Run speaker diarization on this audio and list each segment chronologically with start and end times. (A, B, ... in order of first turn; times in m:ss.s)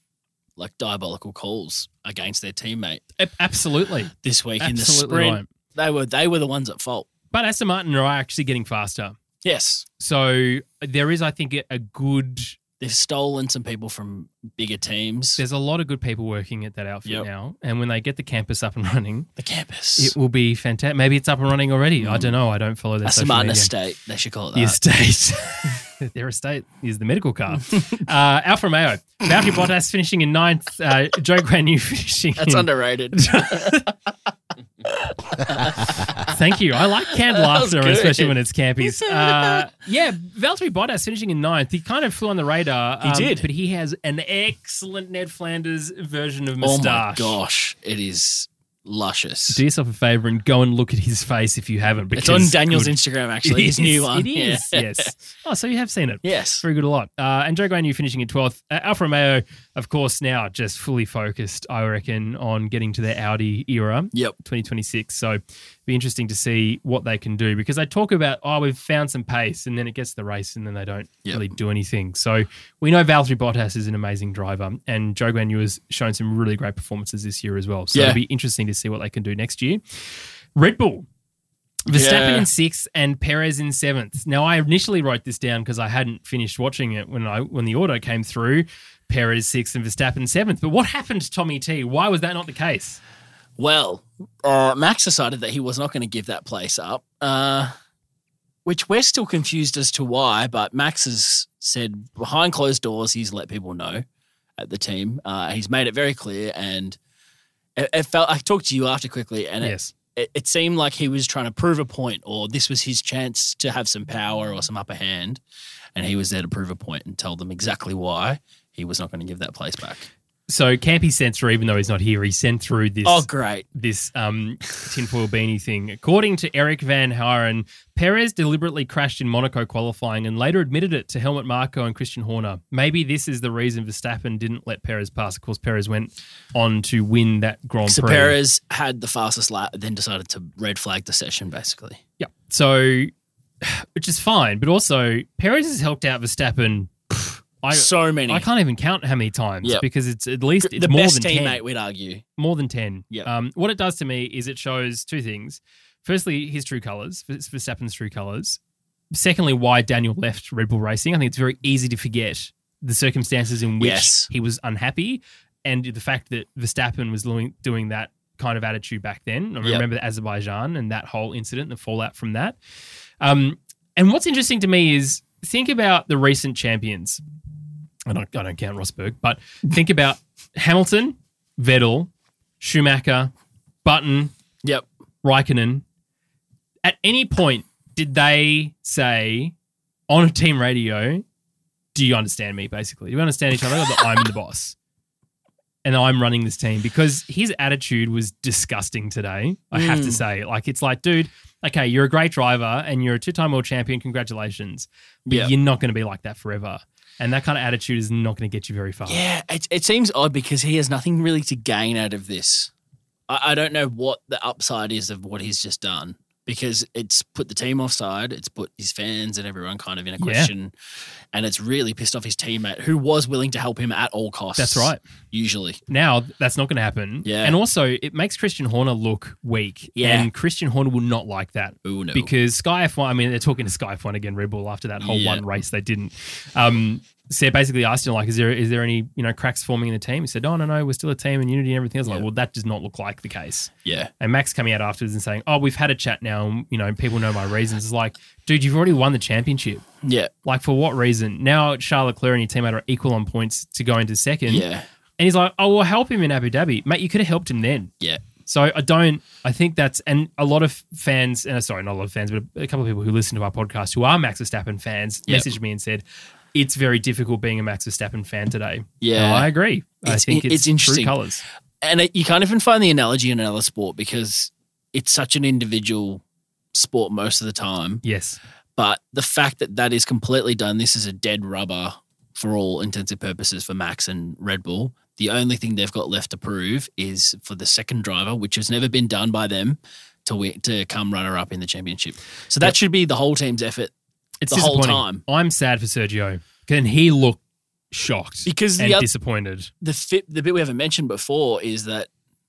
0:00.6-0:03.0 A
0:03.2-0:05.5 B
0:04.2-0:07.1 A
0:07.3-0:09.2 B
0:09.4-0:09.8 A
0:10.0-0:12.6 B
0:12.8-0:15.4 A
0:15.4-0:19.3 B
0:19.4-0:20.1 A
0:20.0-0:23.7 B
0:22.0-0:22.3 A
0:23.0-0:24.8 A
0:24.5-0:33.9 B
0:32.4-0:33.9 A
0:34.9-0:36.3 A
0:36.2-0:47.4 B
0:37.1-0:39.7 A
0:43.0-0:43.4 A
0:46.6-0:49.6 A
0:49.5-1:20.0 B
0:52.2-0:55.1 A
0:56.2-0:56.6 A
1:17.9-1:18.2 A
1:20.6-1:21.1 B
1:21.9-1:33.0 B
1:21.9-1:22.5 A
1:33.6-1:37.7 A
1:38.6-1:44.0 A
1:44.6-1:47.0 A
1:47.8-1:55.4 A
1:49.6-1:49.9 B
1:56.0-2:00.1 A
2:00.5-2:18.4 B
2:03.0-2:03.7 A
2:17.9-2:22.0 A
2:22.2-2:26.9 B
2:27.6-2:31.6 B
2:27.7-2:28.4 A
2:30.6-2:32.2 A
2:32.4-2:38.6 B
2:39.1-2:52.6 B
2:43.8-2:44.3 A
2:53.2-2:57.2 B
2:58.1-3:03.3 B
3:03.8-3:04.3 B
3:05.2-3:05.8 B
3:06.8-3:09.5 B
3:10.1-3:11.2 B
3:11.9-3:14.8 B
3:15.8-3:29.2 B
3:19.7-3:20.2 A
3:25.2-3:25.5 A
3:29.1-3:32.7 A
3:33.3-3:40.7 A
3:40.2-3:40.5 B
3:41.3-3:45.8 A
3:44.6-3:45.0 B
3:45.9-4:09.8 B
3:47.2-3:47.6 A
3:50.0-3:50.3 A
3:51.8-3:52.3 A
3:55.0-3:55.4 A
4:03.8-4:04.1 A
4:10.0-4:10.3 A
4:10.4-4:14.6 B
4:14.5-4:14.8 A
4:15.2-4:17.9 B
4:18.4-4:31.4 B
4:29.0-4:29.5 A
4:30.0-4:31.1 A
4:31.8-4:36.2 A
4:36.7-4:38.0 A
4:38.0-4:38.4 B
4:38.8-4:53.9 A
4:54.4-4:59.7 B
4:54.5-4:55.2 A
4:58.4-4:59.1 A
4:59.8-5:02.1 A